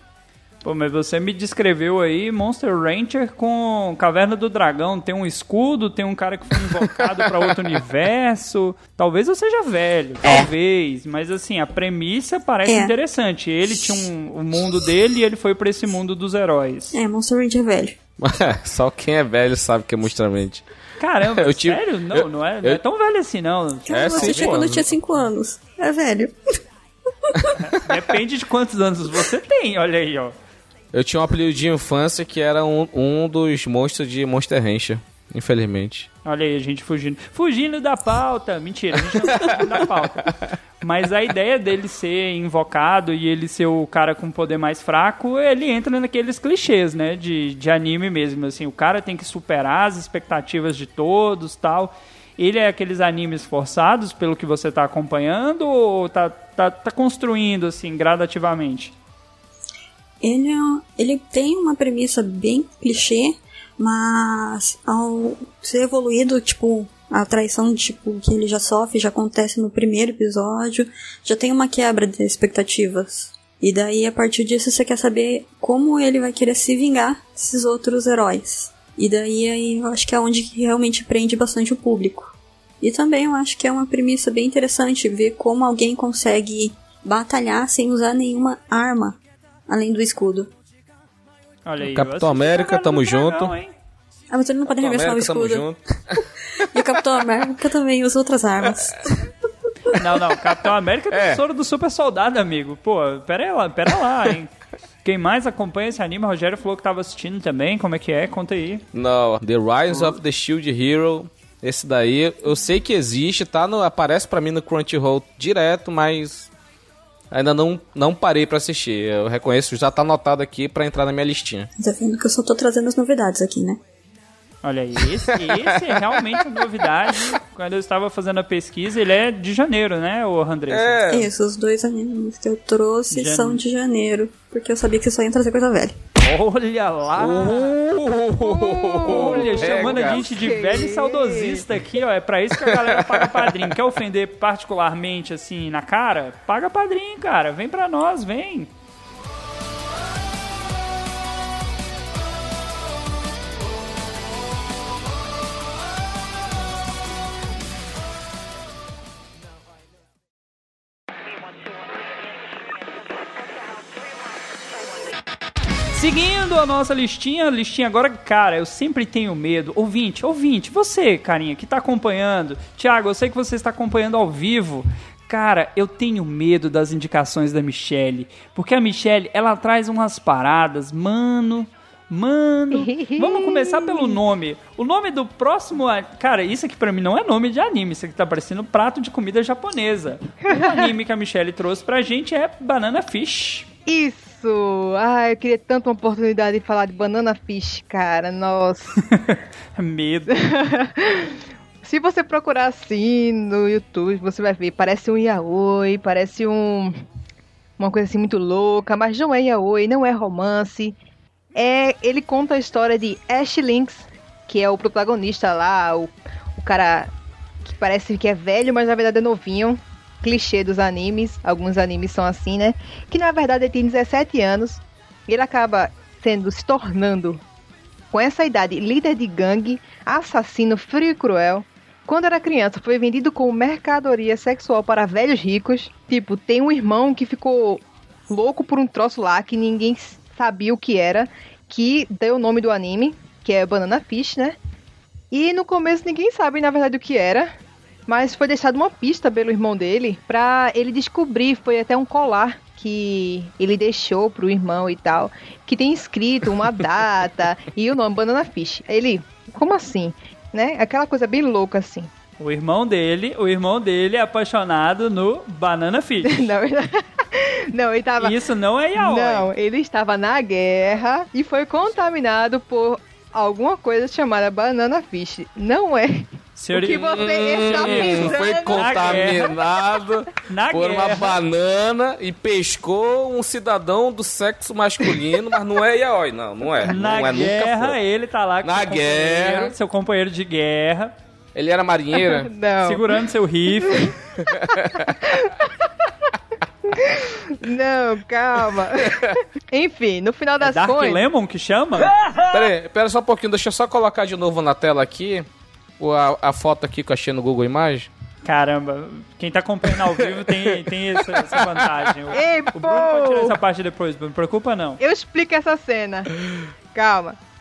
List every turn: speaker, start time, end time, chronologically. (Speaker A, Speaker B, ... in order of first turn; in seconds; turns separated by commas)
Speaker A: 0.6-17.0, Speaker B: 12.7-12.9, Speaker B: 16.9-18.0, Speaker C: 18.2-20.6, Speaker A: 21.0-24.6, Speaker C: 21.4-22.8, Speaker B: 23.9-26.4, Speaker C: 23.9-24.9, Speaker A: 27.6-30.3, Speaker C: 30.9-36.1, Speaker A: 36.2-59.0, Speaker B: 60.2-90.5, Speaker A: 91.7-93.7, Speaker C: 91.8-93.5, Speaker B: 94.3-95.7, Speaker C: 94.7-96.7, Speaker B: 96.6-99.3, Speaker A: 99.9-104.5, Speaker C: 101.1-101.4, Speaker A: 105.0-108.8, Speaker C: 108.9-116.5, Speaker C: 117.3-121.7, Speaker B: 121.8-123.8, Speaker A: 124.6-131.0, Speaker C: 125.3-126.1, Speaker C: 130.7-131.3, Speaker B: 131.1-136.0, Speaker A: 133.1-133.6, Speaker A: 136.2-137.8, Speaker C: 137.2-140.3, Speaker D: 138.4-141.6, Speaker A: 139.1-148.7, Speaker C: 142.9-143.4, Speaker A: 165.9-193.7, Speaker D: 182.7-184.2, Speaker D: 190.5-190.8, Speaker D: 193.9-198.9, Speaker A: 199.1-200.4, Speaker D: 200.3-207.0, Speaker D: 207.8-211.0, Speaker D: 211.6-217.1, Speaker D: 217.7-227.4, Speaker D: 228.1-244.6, Speaker D: 245.3-247.5, Speaker D: 248.1-262.1, Speaker A: 262.4-266.5, Speaker D: 266.3-268.4, Speaker A: 268.2-269.5, Speaker D: 269.0-279.4, Speaker A: 276.6-277.1, Speaker C: 276.9-288.0, Speaker A: 277.7-279.5, Speaker A: 280.5-281.4, Speaker A: 286.8-291.1, Speaker C: 288.6-289.7, Speaker C: 291.6-292.5, Speaker D: 292.1-293.2, Speaker A: 292.8-294.1, Speaker D: 293.8-294.1, Speaker C: 294.4-295.3, Speaker D: 295.0-295.9, Speaker D: 296.9-301.2, Speaker A: 300.6-302.2, Speaker C: 302.5-305.5, Speaker C: 306.0-308.1, Speaker A: 308.4-315.0, Speaker C: 311.4-311.8, Speaker D: 312.3-313.6, Speaker D: 315.0-316.3, Speaker D: 316.9-317.4